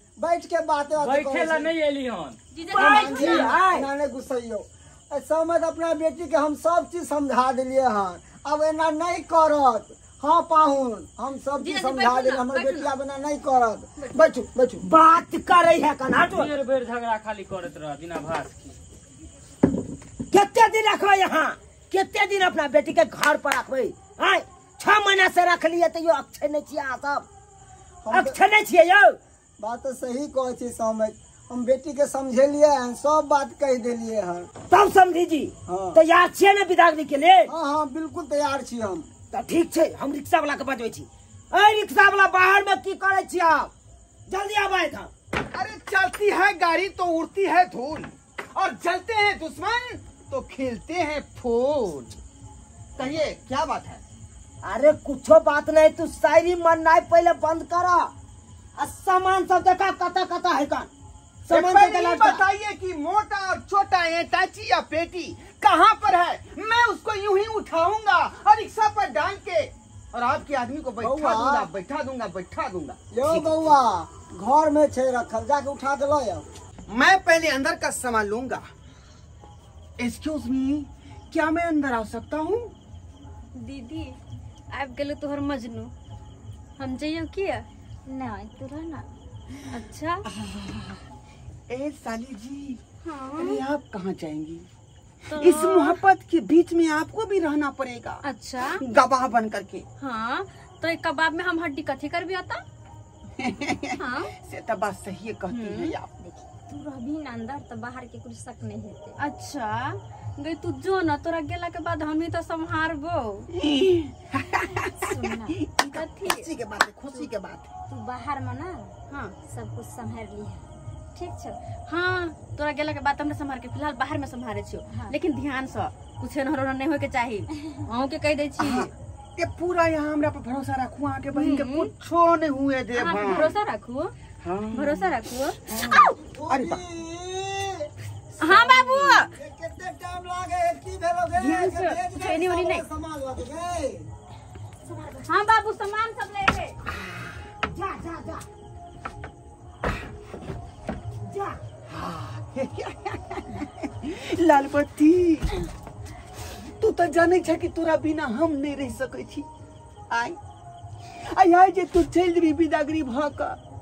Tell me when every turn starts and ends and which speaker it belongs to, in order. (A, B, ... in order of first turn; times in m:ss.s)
0:00.2-0:01.7 A
0:01.0-0:03.4 B
0:02.5-0:03.5 C
0:02.7-0:14.8 A
0:02.8-0:03.9 D
0:11.6-0:12.9 C
0:14.8-0:16.5 D
0:16.3-0:18.8 B
0:20.3-0:27.3 D
0:28.0-0:28.4 A
0:28.1-0:29.2 D
0:29.6-0:34.5 A
0:34.7-0:37.5 D
0:35.7-0:36.0 A
0:37.5-0:39.1 A
0:39.3-0:43.7 D
0:44.3-0:45.1 D
0:45.5-0:52.2 E
0:53.0-0:54.0 E
0:54.6-0:58.1 D
0:58.8-1:00.9 D
1:01.5-1:02.4 D
1:01.5-1:13.0 E
1:11.0-1:11.7 A
1:13.1-1:16.4 A
1:16.9-1:18.6 E
1:20.0-1:22.7 E
1:23.6-1:24.2 C
1:24.7-1:25.9 C
1:26.8-1:27.7 C
1:28.1-1:29.1 F
1:29.7-1:30.3 C
1:30.3-1:31.0 E
1:31.7-1:32.8 E
1:33.0-1:33.6 C
1:33.4-1:34.7 E
1:35.3-1:36.0 C
1:35.4-1:38.2 E
1:38.2-1:38.8 C
1:38.8-1:39.8 E
1:40.0-1:42.6 C
1:43.4-1:46.1 E
1:44.0-1:44.3 C
1:45.5-1:46.0 C
1:46.2-1:49.2 F
1:49.2-1:53.5 C
1:53.5-1:57.7 E
1:55.0-1:55.6 F
1:55.9-1:56.5 C
1:57.9-1:58.9 F
1:59.1-1:59.4 C
1:59.5-2:00.6 F
2:01.2-2:01.6 F
2:01.9-2:08.9 C
2:04.9-2:05.2 F
2:08.6-2:13.5 E
2:11.3-2:11.9 C
2:12.9-2:14.1 C
2:14.4-2:15.2 E
2:14.7-2:16.2 C
2:15.7-2:16.8 E
2:16.0-2:24.1 A
2:18.4-2:19.3 C
2:21.4-2:22.8 C
2:24.9-2:25.2 F
2:25.3-2:26.8 C
2:27.6-2:28.4 D
2:31.2-2:31.6 D
2:31.9-2:35.6 E
2:36.8-2:39.5 E
2:40.1-2:40.4 E
2:41.3-2:43.6 E